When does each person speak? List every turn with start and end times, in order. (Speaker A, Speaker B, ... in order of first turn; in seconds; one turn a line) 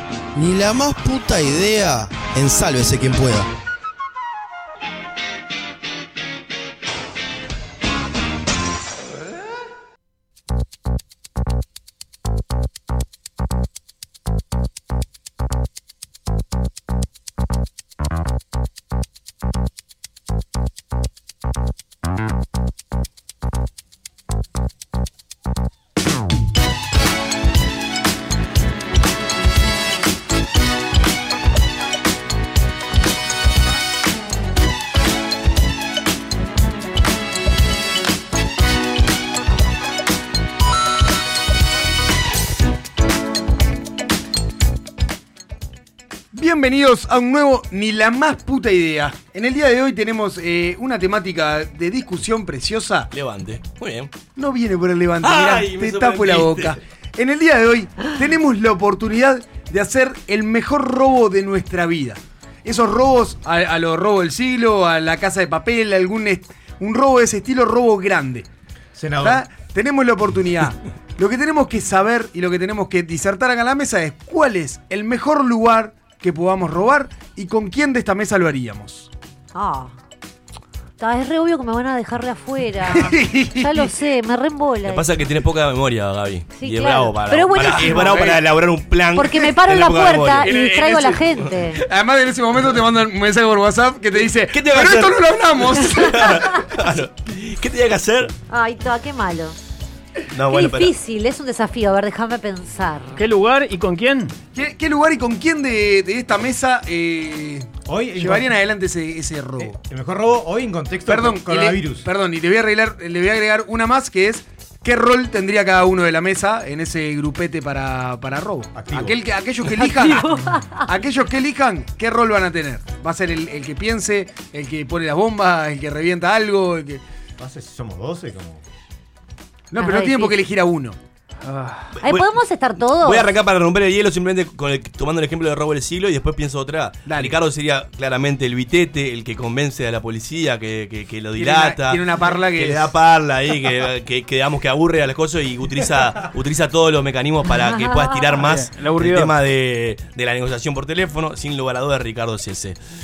Speaker A: 0.3-3.5
Speaker B: 46.3-53.1
Speaker C: 53.1-54.1
Speaker B: 54.4-68.5
Speaker C: 55.2-56.8
Speaker D: 68.9-69.4
Speaker B: 69.2-79.1
Speaker E: 79.5-79.9
Speaker E: 81.0-85.0
Speaker B: 82.9-83.9
Speaker C: 84.8-90.5
Speaker E: 86.5-88.2
Speaker B: 87.6-88.4
Speaker E: 89.1-91.8
Speaker B: 90.4-96.6
Speaker C: 94.5-98.3
Speaker E: 98.5-99.6
Speaker C: 100.3-100.9
Speaker E: 100.5-103.1
Speaker F: 103.2-104.3
Speaker B: 104.5-109.7
Speaker D: 107.8-108.5
Speaker D: 109.6-112.0
Speaker B: 111.1-127.0
Speaker D: 118.7-119.2
Speaker E: 119.7-120.8
Speaker D: 127.4-128.6
Speaker B: 129.7-131.0
Speaker E: 129.8-130.4
Speaker F: 131.4-132.0
Speaker E: 132.0-133.3
Speaker C: 132.0-132.3
Speaker C: 133.0-152.8
Speaker B: 137.1-137.3
Speaker B: 141.4-142.9
Speaker E: 147.7-148.2
Speaker F: 148.4-149.3